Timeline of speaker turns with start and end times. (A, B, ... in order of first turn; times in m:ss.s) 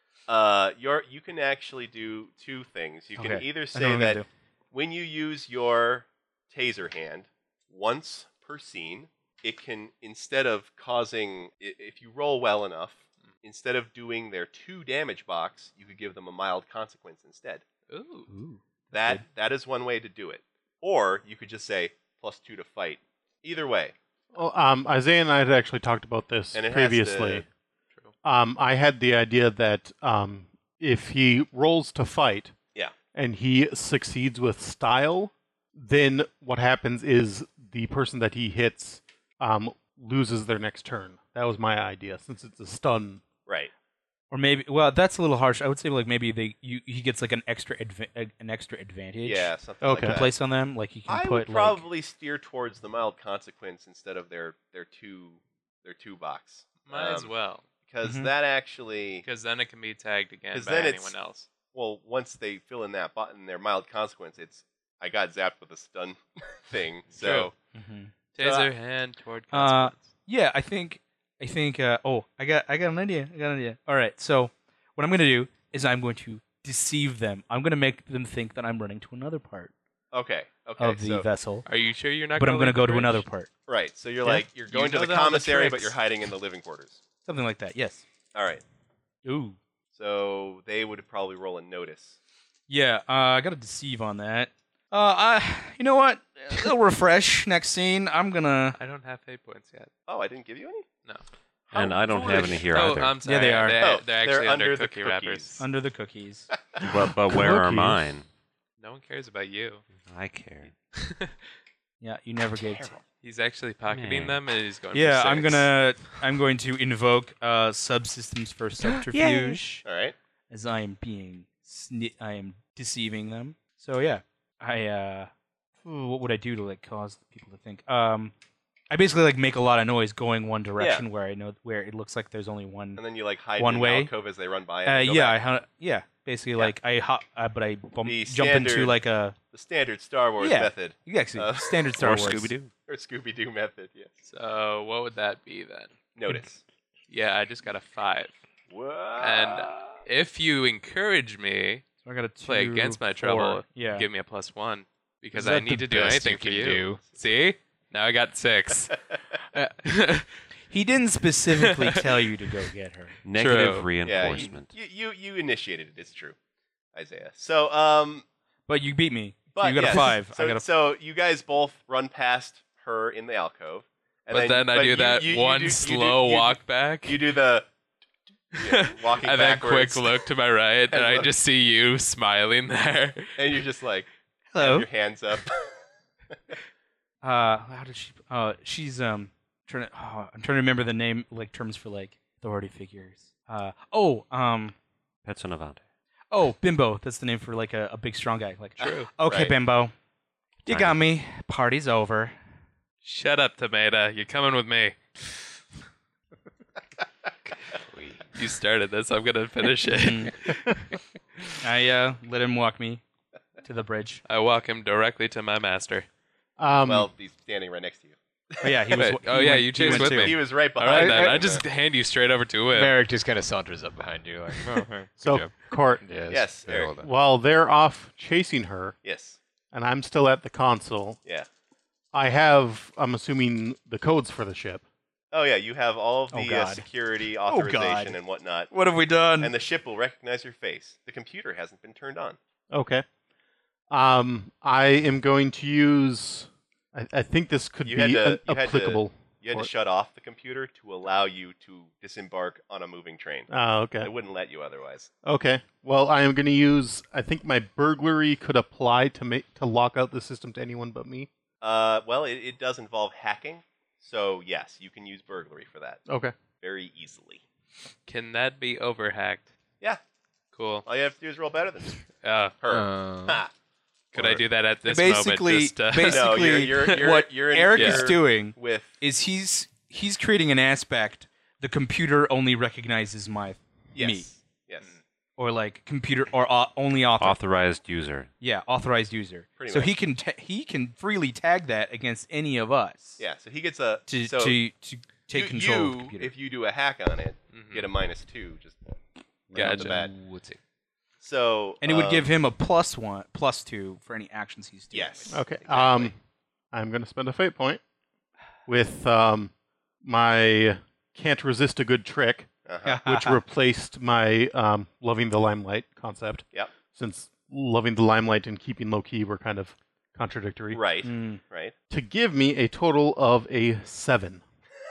0:00.3-0:17.6 A
0:03.2-0:04.3 B
0:17.9-0:18.3 C
0:18.3-0:19.2 B
0:18.9-0:24.0 A
0:24.3-0:27.5 D
0:26.5-0:27.5 A
0:28.2-0:32.6 D
0:33.1-0:43.2 D
0:43.5-0:43.7 A
0:44.3-0:51.9 B
0:49.2-0:50.3 A
0:49.8-0:50.2 D
0:51.1-0:59.2 A
0:56.8-0:57.7 C
0:58.0-0:58.3 B
0:59.2-1:01.5 C
1:00.5-1:07.5 A
1:07.1-1:07.5 C
1:07.7-1:08.1 B
1:08.3-1:10.1 C
1:08.4-1:08.7 A
1:09.5-1:19.7 B
1:20.1-1:21.3 A
1:20.8-1:21.7 B
1:21.7-1:23.3 C
1:22.4-1:23.5 B
1:23.7-1:27.0 A
1:24.6-1:25.9 C
1:27.3-1:28.0 B
1:28.4-1:28.6 A
1:29.2-1:29.6 B
1:29.9-1:32.2 A
1:32.7-1:38.8 B
1:38.8-1:39.9 C
1:40.1-1:40.9 A
1:41.7-1:42.7 A
1:41.7-1:43.2 E
1:42.1-1:45.6 C
1:43.2-1:43.8 B
1:43.8-1:45.6 A
1:45.6-1:46.5 B
1:46.8-1:48.0 D
1:46.8-1:48.3 E
1:48.8-1:49.8 C
1:50.0-1:50.7 E
1:50.9-1:51.4 C
1:52.0-1:53.0 B
1:52.7-1:53.0 A
1:53.2-1:55.7 C
1:53.9-1:54.4 E
1:54.9-1:59.8 B
1:59.1-1:59.6 E
1:59.8-2:00.2 A
2:00.5-2:05.3 B
2:05.8-2:08.3 B
2:08.9-2:13.0 B
2:10.8-2:11.0 A
2:13.0-2:15.4 A
2:13.6-2:14.1 B
2:14.8-2:19.4 B
2:18.0-2:19.0 A
2:19.5-2:22.3 A
2:20.4-2:22.5 B
2:22.0-2:22.7 E
2:22.9-2:24.2 A
2:24.2-2:25.9 C
2:26.2-2:26.6 A
2:27.1-2:28.4 C
2:28.7-2:30.0 A
2:29.2-2:31.9 C
2:32.0-2:34.1 B
2:32.4-2:38.9 C
2:35.3-2:37.0 F
2:39.8-2:40.3 C
2:40.7-2:43.1 B
2:41.6-2:42.1 C
2:43.2-2:44.7 E
2:43.4-2:44.0 C
2:44.0-2:46.4 A
2:47.0-2:48.2 A
2:48.7-2:50.6 B
2:49.5-2:57.7 A
2:54.3-2:57.2 C
2:58.6-3:00.1 A
2:58.6-3:03.4 C
3:00.9-3:01.3 A
3:03.4-3:05.6 A
3:04.5-3:04.9 B
3:07.2-3:14.8 B
3:15.2-3:15.8 E
3:16.3-3:19.9 B
3:18.8-3:19.1 C
3:18.8-3:19.6 A
3:20.6-3:22.4 B
3:20.7-3:21.0 E
3:23.0-3:25.0 C
3:27.8-3:28.4 F
3:28.3-3:30.7 C
3:30.0-3:30.4 B
3:31.6-3:33.0 B
3:33.6-3:34.2 B
3:34.3-3:36.1 C
3:36.6-3:37.1 D
3:36.8-3:38.8 A
3:38.6-3:40.4 B
3:38.9-3:43.0 C
3:39.8-3:41.6 A
3:40.9-3:41.6 F
3:42.7-3:47.1 F
3:45.2-3:46.0 D
3:46.3-3:46.9 A
3:47.0-3:49.0 D
3:49.0-3:49.4 A
3:49.7-3:51.2 D
3:52.1-3:54.8 D
3:55.3-3:58.7 A
3:56.3-3:56.9 B
3:57.4-3:58.2 B
3:58.7-3:59.5 B
3:59.4-4:02.4 A
4:02.7-4:03.0 D
4:03.9-4:09.7 D
4:07.8-4:15.1 A
4:13.5-4:14.1 D
4:15.2-4:21.3 D
4:21.6-4:26.0 A
4:26.1-4:26.4 D
4:26.6-4:27.4 A
4:28.1-4:29.5 C
4:30.5-4:30.9 C
4:30.8-4:32.1 A
4:32.1-4:32.6 C
4:32.6-4:33.5 A
4:32.7-4:33.4 F
4:34.1-4:37.1 C
4:34.2-4:34.4 F
4:34.8-4:44.3 B
4:36.0-4:39.0 A
4:37.7-4:38.1 C
4:43.9-4:45.0 A
4:45.4-4:47.4 B
4:47.2-4:48.3 E
4:48.4-4:53.2 B
4:49.6-4:50.0 A
4:53.2-4:54.6 A
4:54.1-4:56.3 B
4:55.3-4:58.9 A
4:57.5-4:57.9 C
4:59.5-5:00.1 A
4:59.6-5:00.1 C
4:59.6-5:00.6 F
5:01.2-5:02.3 A
5:01.8-5:05.4 B
5:04.9-5:06.1 A
5:05.3-5:06.2 D
5:06.7-5:07.8 D
5:08.7-5:09.5 D
5:10.0-5:12.5 D
5:12.7-5:13.0 A
5:12.8-5:13.4 B
5:13.0-5:20.8 D
5:20.7-5:21.7 A
5:21.0-5:21.4 B
5:21.9-5:24.4 D